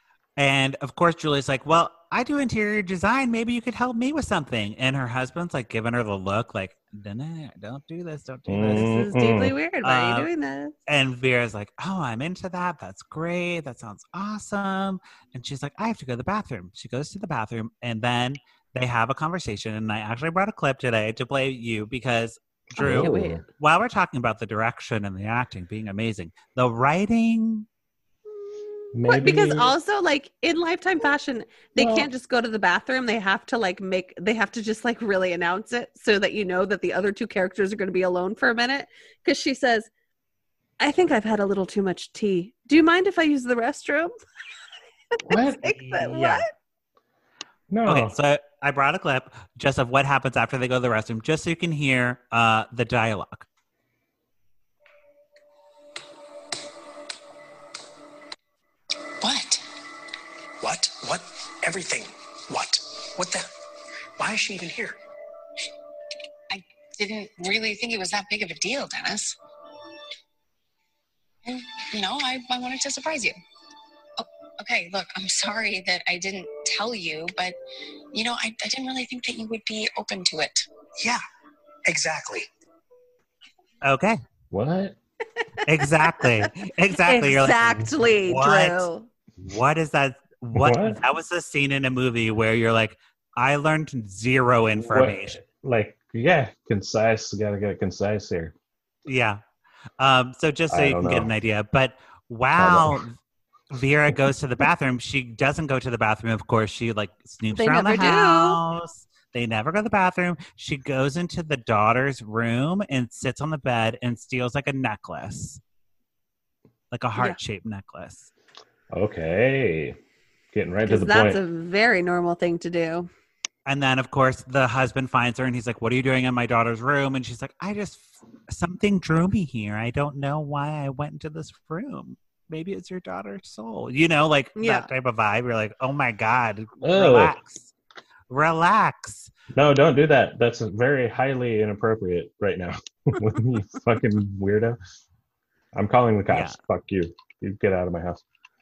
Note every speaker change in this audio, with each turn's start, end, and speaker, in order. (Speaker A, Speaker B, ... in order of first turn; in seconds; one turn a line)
Speaker A: 0.4-9.1
Speaker B: 8.5-9.6
Speaker C: 8.7-10.8
Speaker A: 9.8-10.3
Speaker A: 10.9-27.7
Speaker B: 22.8-23.4
Speaker C: 22.8-23.4
Speaker C: 28.5-39.9
Speaker B: 28.9-29.8
Speaker B: 31.8-32.1
Speaker C: 40.8-44.1
Speaker C: 45.2-46.5
Speaker B: 45.3-45.6
Speaker A: 45.7-46.5
Speaker B: 47.7-48.1
Speaker A: 47.9-53.5
Speaker D: 59.2-59.6
Speaker E: 60.6-63.5
Speaker E: 64.2-65.0
Speaker D: 66.5-69.4
Speaker D: 71.5-73.3
Speaker D: 74.2-77.6
Speaker D: 78.1-80.7
Speaker E: 81.9-82.5
Speaker A: 83.8-84.2
Speaker B: 84.5-85.0
Speaker C: 85.5-86.5
Speaker A: 85.7-88.9
Speaker C: 87.0-89.1
Speaker A: 89.4-95.4
Speaker B: 90.5-91.0
Speaker B: 94.8-98.5
Speaker A: 99.1-99.4
Speaker A: 100.0-103.1
Speaker B: 100.7-101.3
Speaker B: 102.6-103.0
Speaker A: 103.7-115.6
Speaker C: 107.5-108.6
Speaker A: 116.9-118.3
Speaker B: 118.9-120.0
Speaker B: 120.5-121.4
Speaker C: 120.9-123.1
Speaker A: 123.7-137.7
Speaker C: 134.6-134.9
Speaker B: 136.8-137.4
Speaker A: 138.3-139.3
Speaker B: 139.5-144.8
Speaker B: 145.7-148.2
Speaker A: 146.3-146.6